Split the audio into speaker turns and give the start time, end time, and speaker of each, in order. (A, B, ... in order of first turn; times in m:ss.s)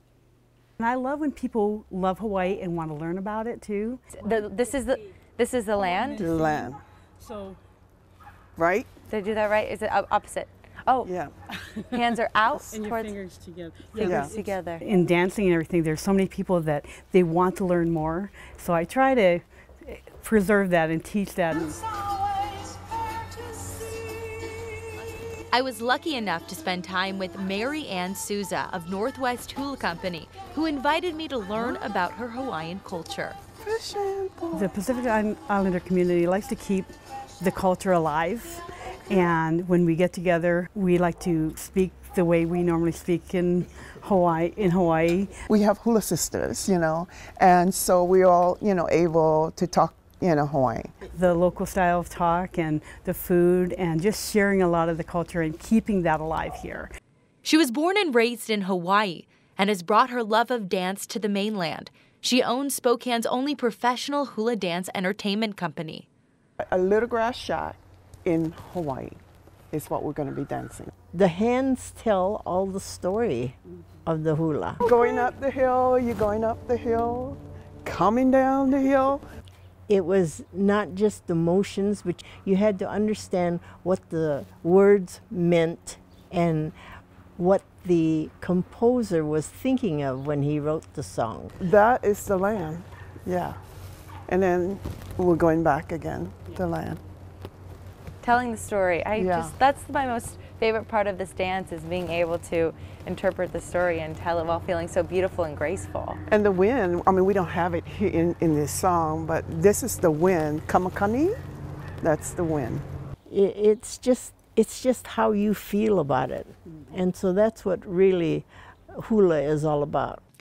0:00.8-0:04.4 A
0:04.1-0:06.3 B
0:05.9-0:06.7 A
0:06.2-0:06.8 C
0:07.2-0:07.6 A
0:08.6-0:08.9 C
0:09.1-0:11.1 B
0:11.0-0:11.3 C
0:11.9-0:13.2 B
0:12.7-0:21.8 A
0:13.9-0:14.8 B
0:14.0-0:14.3 C
0:25.5-0:33.4 D
0:33.6-0:34.7 C
0:34.5-0:45.4 A
0:45.5-0:50.9 C
0:51.1-0:56.9 A
0:57.4-1:06.0 D
1:06.7-1:09.2 C
1:09.7-1:10.9 C
1:11.1-1:14.8 E
1:14.8-1:19.2 C
1:19.9-1:26.7 E
1:27.4-1:31.5 E
1:31.6-1:33.6 C
1:34.3-1:37.0 C
1:38.2-1:46.2 B
1:39.2-1:39.5 C
1:46.3-1:51.4 C
1:52.0-1:52.8 C
1:53.3-2:00.2 E